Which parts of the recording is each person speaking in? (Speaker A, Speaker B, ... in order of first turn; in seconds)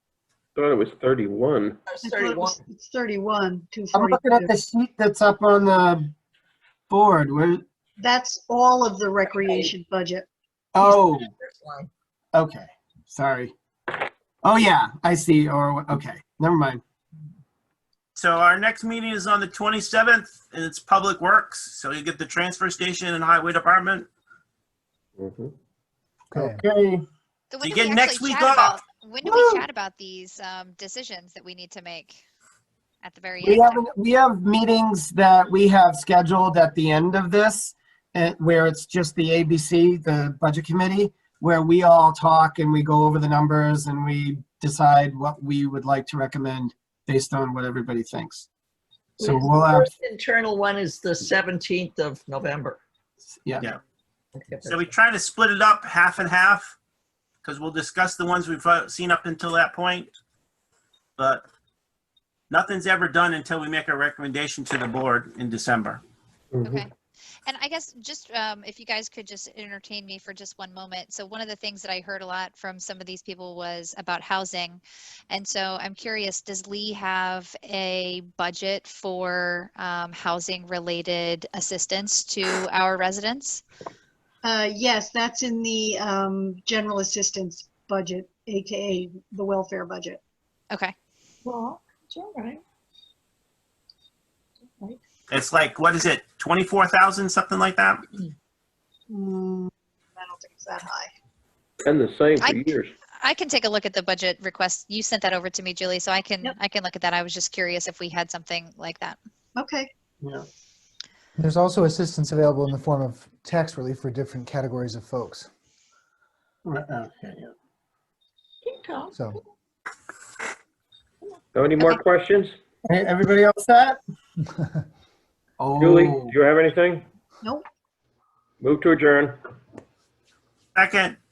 Speaker A: 0.5-1.8, 25.2-25.5, 66.5-66.8, 101.8-102.9, 121.5-122.5, 125.8-127.1, 128.6-129.4
Speaker B: 1.9-2.6, 9.2-9.7, 10.8-11.9, 49.2-52.8, 54.3-54.9, 91.4-92.6, 118.6-119.2
Speaker C: 2.0-4.5, 8.0-10.3, 84.4-90.2, 99.1-101.1, 109.5-109.9
Speaker D: 3.9-6.1, 6.9-7.6, 10.8-11.3, 12.3-13.5, 14.4-16.8, 26.3-27.0, 29.2-29.6, 33.4-48.5, 49.2-49.9, 110.2-110.5, 116.6-117.5, 122.9-124.0, 125.6-126.3
Speaker E: 18.1-24.1, 27.6-28.8, 54.7-56.8, 57.4-60.1, 61.2-61.4, 62.5-66.0, 95.3-98.0, 130.8-131.2
Speaker F: 26.3-26.6, 111.3-115.5, 119.1-119.4
Speaker G: 27.5-32.2, 33.0-33.9, 66.6-66.9, 67.5-83.6, 103.2-109.2